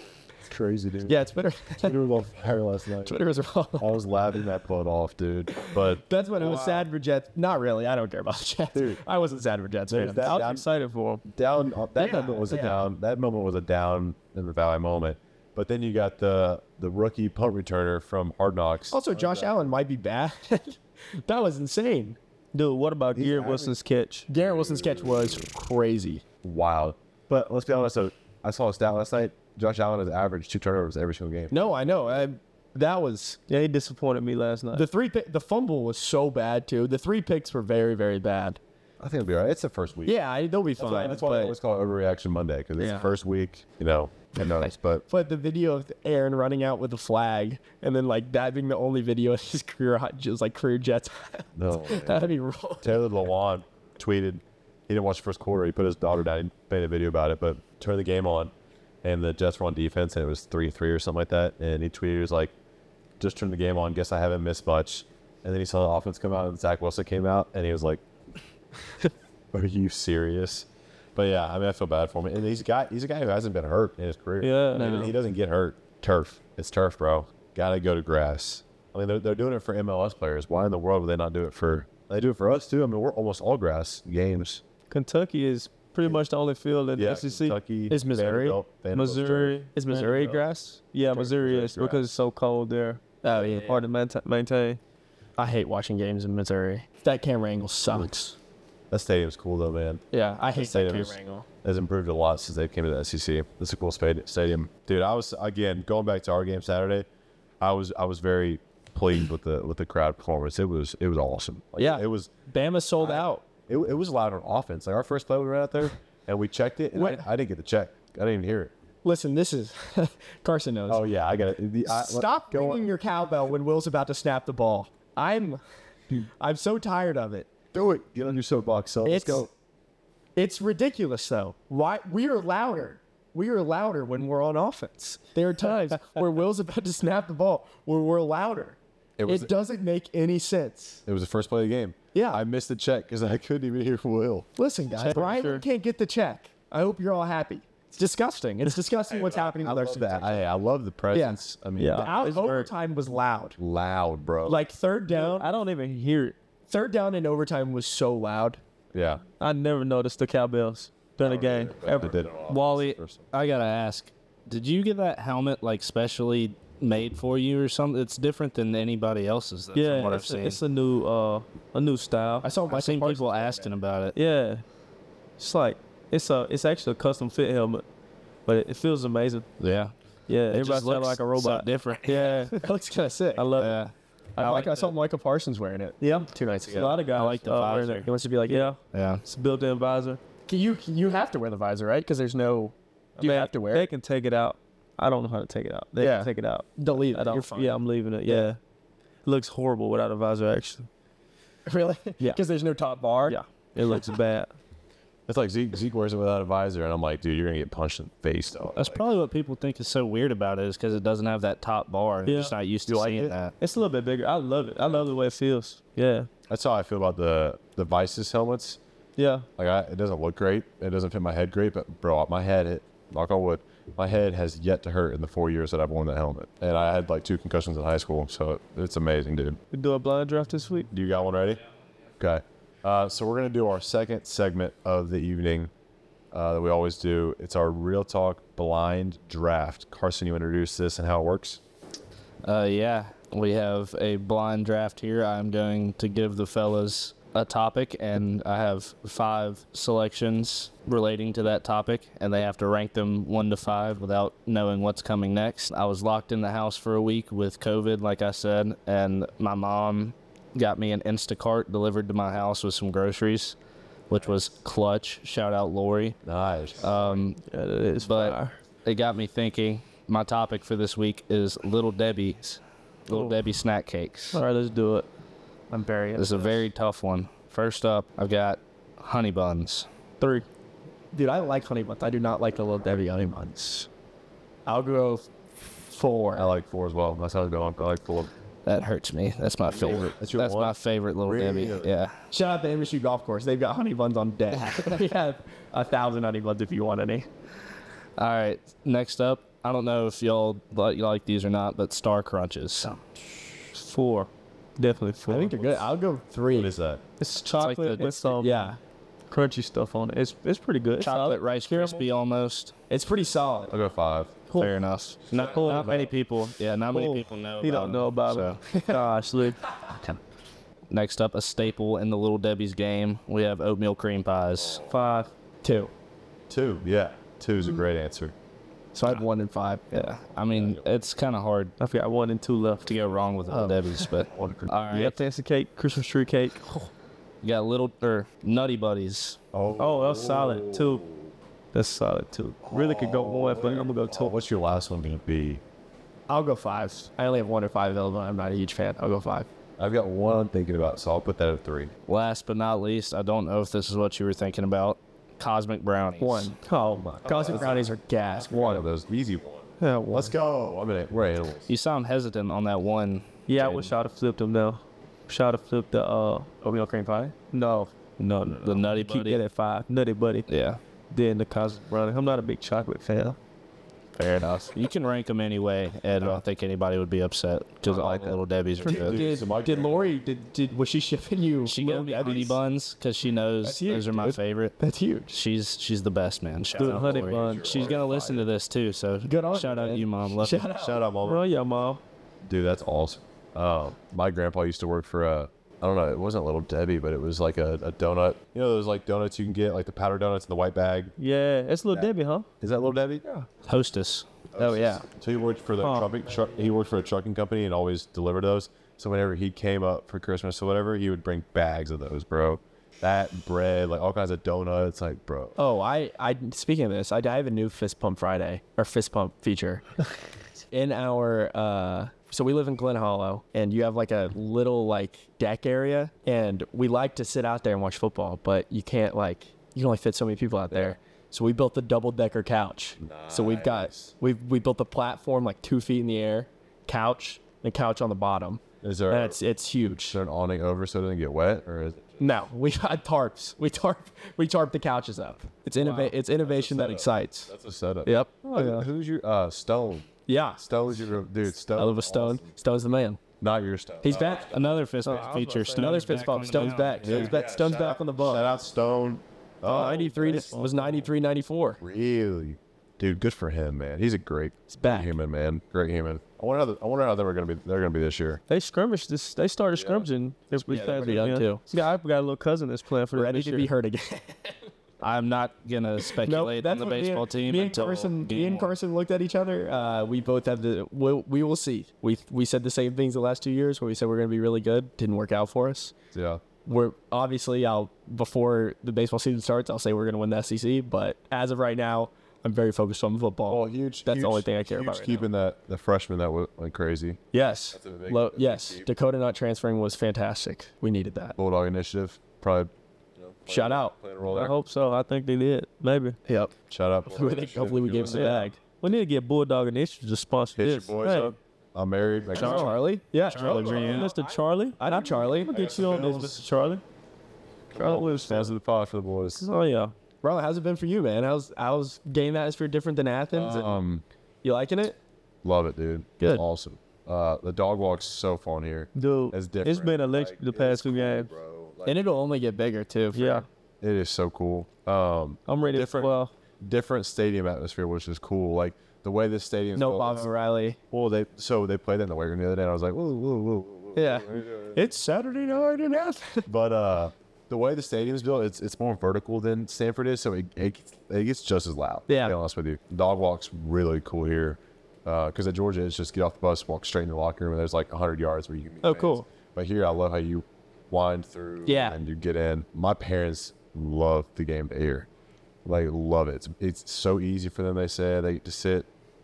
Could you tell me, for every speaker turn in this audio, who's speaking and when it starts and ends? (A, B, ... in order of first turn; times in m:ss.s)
0:00.4-0:01.2 A
0:01.1-0:02.0 B
0:01.8-0:03.2 A
0:03.0-0:03.9 B
0:03.8-0:06.8 A
0:05.6-0:10.4 B
0:08.7-0:09.0 A
0:09.9-0:10.6 A
0:10.0-0:11.2 C
0:11.2-0:19.7 A
0:12.0-0:12.8 B
0:18.9-0:22.2 B
0:22.5-0:24.3 C
0:23.1-0:23.7 A
0:24.3-0:26.2 B
0:24.4-0:25.5 A
0:26.4-0:32.2 A
0:31.5-0:33.4 B
0:33.5-0:34.9 C
0:34.7-0:38.6 B
0:39.0-0:40.2 A
0:40.1-0:41.6 B
0:40.8-0:45.0 A
0:42.8-0:43.1 B
0:45.1-0:53.0 B
0:51.6-0:58.5 A
0:59.0-1:02.5 A
1:03.2-1:08.0 A
1:09.5-1:24.6 A
1:14.4-1:15.0 C
1:14.8-1:15.1 B
1:24.9-1:27.6 C
1:27.0-1:29.6 A
1:27.9-1:28.6 B
1:28.9-1:30.4 C
1:29.7-1:30.8 B
1:30.9-1:34.8 C
1:31.1-1:32.0 A
1:33.2-1:33.8 B
1:35.4-1:38.4 B
1:38.9-1:40.0 A
1:40.1-1:41.4 B
1:40.6-1:47.1 A
1:47.6-1:52.3 A
1:51.8-1:53.4 B
1:53.0-1:58.7 A
1:56.9-1:57.2 B
1:59.0-2:01.0 B
2:00.9-2:02.9 A
2:01.9-2:05.6 B
2:06.2-2:07.5 B
2:07.7-2:09.5 A
2:09.0-2:09.5 B
2:10.4-2:21.0 B
2:19.2-2:19.5 A
2:21.1-2:24.5 A
2:22.1-2:22.4 B
2:24.6-2:30.4 B
2:25.0-2:25.6 C
2:29.1-2:32.1 A
2:31.1-2:31.4 B
2:31.8-2:32.7 C
2:31.9-2:33.6 B
2:33.6-2:34.6 A
2:34.4-2:35.5 B
2:35.1-2:36.4 C
2:36.7-2:38.6 B
2:38.9-2:39.2 A
2:39.4-2:42.3 C
2:41.2-2:43.3 A
2:42.5-2:50.6 D
2:49.7-2:52.5 C
2:52.4-2:53.7 B
2:52.7-2:54.1 D
2:54.1-2:54.6 C
2:55.4-2:57.8 C
2:58.5-2:59.5 C
2:59.6-2:59.9 D
3:00.3-3:02.6 C
3:00.5-3:02.4 D
3:02.5-3:03.5 B
3:03.4-3:03.8 C
3:03.6-3:04.8 D
3:04.4-3:07.0 B
3:06.0-3:10.2 C
3:07.1-3:08.1 D
3:08.0-3:08.7 B
3:08.9-3:09.2 D
3:10.5-3:13.9 B
3:13.2-3:18.6 C
3:16.0-3:18.5 B
3:19.2-3:20.9 C
3:21.6-3:23.4 B
3:23.3-3:24.5 C
3:25.3-3:29.0 A
3:28.8-3:33.5 D
3:32.2-3:32.5 C
3:32.9-3:33.4 A
3:33.6-3:36.3 C
3:36.5-3:38.8 A
3:39.2-3:39.4 C
3:39.6-3:49.6 A
3:49.7-3:50.9 C
3:50.9-3:51.6 A
3:52.2-3:55.7 A
3:56.3-4:01.6 A
4:02.4-4:23.6 D
4:24.1-4:26.2 D
4:26.2-4:27.2 A
4:26.8-4:27.4 D
4:27.5-4:28.6 C
4:28.0-4:34.4 D
4:33.1-4:33.4 C
4:34.3-4:35.1 C
4:35.7-4:36.6 B
4:36.1-4:39.9 D
4:40.2-4:40.4 B
4:41.1-4:43.9 B
4:44.6-4:45.3 B
4:45.8-4:46.5 B
4:46.4-4:48.3 A
4:48.6-4:52.1 D
4:49.7-4:51.9 A
4:52.3-4:57.3 B
4:58.2-5:03.2 D
5:03.7-5:05.6 C
5:05.3-5:06.7 B
5:05.5-5:05.8 A
5:06.5-5:07.0 A
5:07.2-5:08.7 C
5:07.5-5:08.2 D
5:08.3-5:08.8 B
5:09.3-5:12.0 C
5:11.0-5:12.7 D
5:11.1-5:12.0 B
5:12.9-5:13.7 B
5:13.7-5:14.4 A
5:14.6-5:18.6 D
5:15.4-5:16.1 C
5:15.7-5:16.0 A
5:16.9-5:19.6 C
5:18.7-5:19.0 B
5:19.9-5:20.2 D
5:20.9-5:24.8 D
5:24.9-5:25.9 B
5:26.5-5:28.3 A
5:28.9-5:30.1 B
5:29.9-5:31.7 D
5:30.5-5:30.9 A
5:31.8-5:33.0 C
5:32.9-5:35.2 D
5:34.3-5:34.7 A
5:34.9-5:36.9 C
5:37.4-5:39.4 D
5:39.5-5:41.3 A
5:39.8-5:41.0 C
5:41.7-5:44.3 C
5:42.6-5:45.6 A
5:46.3-5:49.5 B
5:49.8-5:51.9 A
5:52.1-5:56.5 D
5:56.2-5:56.6 B
5:56.6-5:57.1 C
5:57.0-6:01.7 A
5:57.2-5:58.9 B
5:59.8-6:00.3 C
6:01.7-6:03.9 D
6:03.5-6:10.5 C
6:06.6-6:07.3 B
6:08.4-6:09.4 D
6:10.5-6:10.8 D
6:11.1-6:13.4 C
6:14.1-6:19.2 D
6:17.8-6:20.1 A
6:18.8-6:22.6 B
6:21.6-6:24.7 D
6:23.6-6:25.3 B
6:25.3-6:31.0 D
6:26.7-6:28.5 A
6:26.8-6:28.0 C
6:29.2-6:31.0 B
6:30.8-6:31.4 A
6:31.2-6:32.0 C
6:32.4-6:41.1 A
6:41.2-6:42.5 C
6:42.6-6:43.2 A
6:43.6-6:44.2 D
6:44.5-6:55.6 A
6:44.6-6:45.0 C
6:45.8-6:46.1 C
6:55.6-6:59.8 B
7:00.7-7:20.2 B
7:10.7-7:10.9 A
7:13.0-7:14.1 A
7:18.8-7:19.4 A
7:20.1-7:22.4 A
7:22.2-7:27.5 B
7:26.4-7:30.1 A
7:28.0-7:28.4 B
7:28.4-7:28.8 C
7:30.3-7:30.6 B
7:30.6-7:32.5 A
7:31.7-7:33.2 B
7:33.4-7:34.9 A
7:34.0-7:34.5 B
7:34.5-7:37.4 D
7:35.0-7:36.8 C
7:35.7-7:38.5 B
7:37.0-7:40.6 A
7:39.6-7:41.8 B
7:39.7-7:40.9 C
7:41.8-7:48.4 A
7:44.7-7:45.1 B
7:48.5-7:53.7 C
7:49.7-7:50.1 A
7:50.7-7:51.6 B
7:50.7-7:51.2 A
7:53.1-7:54.7 B
7:55.0-7:58.7 D
7:56.2-8:05.9 B
8:06.1-8:06.4 A
8:06.6-8:15.3 B
8:13.5-8:17.2 A
8:17.3-8:21.4 B
8:17.7-8:18.9 A
8:21.4-8:24.5 A
8:23.5-8:23.9 B
8:24.3-8:26.2 C
8:26.3-8:26.5 B
8:26.7-8:28.5 A
8:27.0-8:28.6 B
8:28.0-8:31.3 C
8:30.6-8:32.8 A
8:32.3-8:36.1 B
8:32.3-8:32.8 C
8:33.3-8:34.1 D
8:33.3-8:36.8 C
8:33.4-8:34.0 A
8:35.3-8:36.4 A
8:37.7-8:39.4 A
8:37.8-8:38.6 C
8:39.4-8:39.9 C
8:40.2-8:43.7 B
8:43.3-8:44.0 A
8:44.4-8:45.0 B
8:45.4-8:52.1 A
8:49.0-8:51.3 C
8:51.8-8:53.4 B
8:53.1-8:53.4 C
8:53.8-9:00.3 A
8:55.5-8:56.3 C
8:59.8-9:00.8 B
9:00.9-9:04.8 A
9:04.0-9:06.5 B
9:06.4-9:25.1 A
9:12.1-9:12.3 B
9:18.8-9:19.3 B
9:21.6-9:22.0 B
9:25.6-9:28.9 A